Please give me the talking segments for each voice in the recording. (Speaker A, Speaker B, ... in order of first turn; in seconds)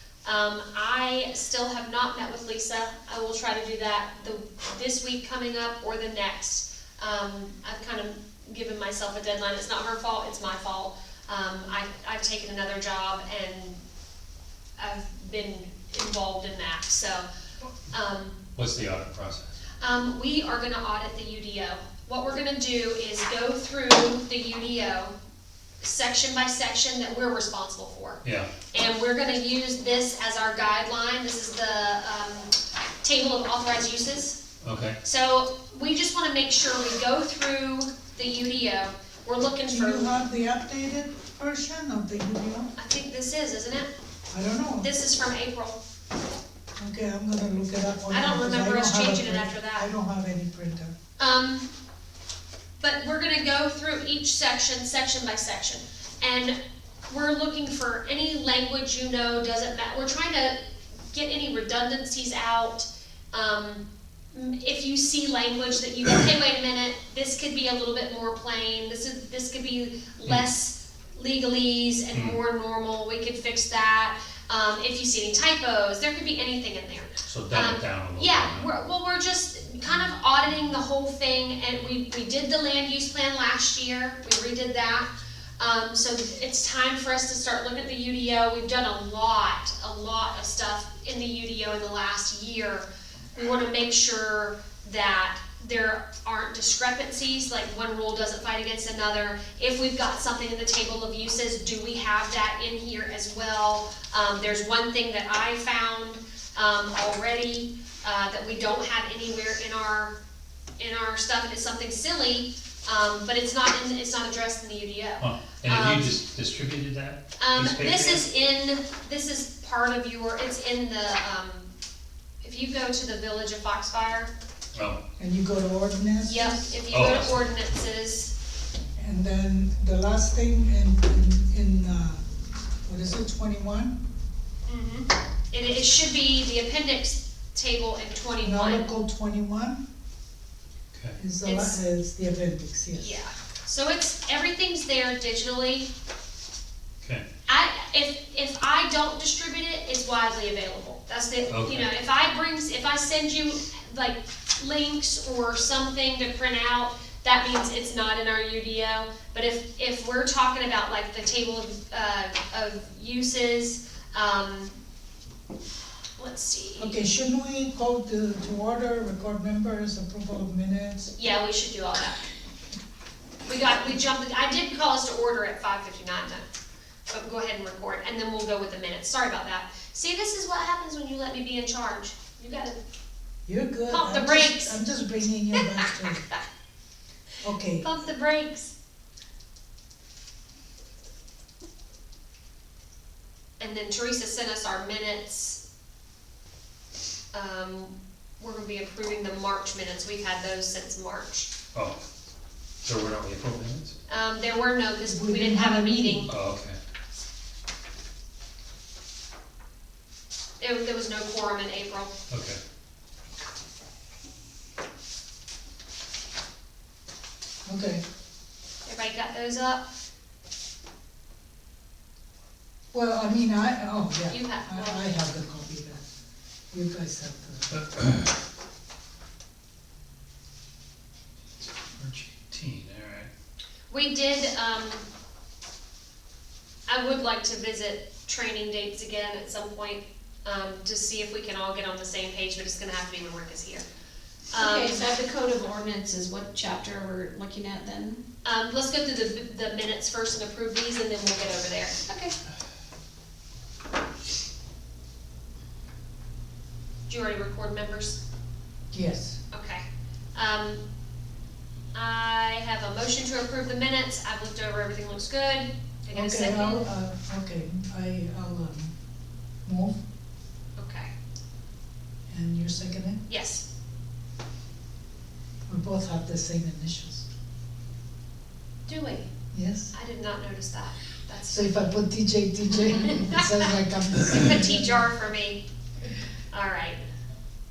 Speaker A: 0.2-13.8, 14.8-17.2, 17.9-18.4, 19.8-25.1, 25.8-34.4, 35.0-40.1, 42.8-43.9, 44.8-45.8, 48.1-49.9, 51.2-51.7, 52.8-56.5, 57.1-60.6, 61.1-85.1, 85.6-110.1, 110.8-116.2, 117.4-121.7, 122.4-124.3, 126.2-128.3, 134.7-138.9, 141.4-141.8, 142.9-145.9, 147.5-164.8, 166.2-167.0, 171.2-172.2, 173.4-176.5, 177.1-182.8, 183.9-184.8, 185.5-186.4, 187.8-188.7, 193.6-195.6, 197.3-201.5, 204.1-206.3, 210.6-212.1, 218.8-219.9, 224.3-225.1, 233.9-235.0, 236.9-243.8, 244.5-245.0, 248.4-251.9, 257.1-258.2, 259.5-259.8, 260.3-260.8, 261.9-266.8, 270.8-271.1, 273.3-273.6, 278.9-279.3, 279.9-281.7, 282.9-285.6, 286.5-287.0
Speaker B: 18.6-19.5, 28.2-28.5, 34.6-35.0, 72.1-72.4, 77.2-78.7, 115.2-118.2, 124.7-125.0, 126.9-127.5, 151.5-151.9, 201.7-202.0, 202.8-203.9, 206.3-206.8, 212.3-212.6, 227.7-228.3, 231.6-233.3
Speaker C: 39.6-42.7, 44.3-44.9, 46.8-50.9, 125.2-126.7, 128.9-132.2, 132.8-133.9, 138.4-139.8, 141.2-143.2, 166.8-171.1, 183.4-186.2, 187.4-187.8, 205.1-206.3, 217.6-218.0, 222.9-226.0, 226.7-227.7, 258.9-259.4, 266.1-268.9, 269.6-270.0, 272.3-273.2, 275.7-277.2, 279.5-279.9, 281.5-285.0
Speaker D: 244.5-248.2, 252.1-252.3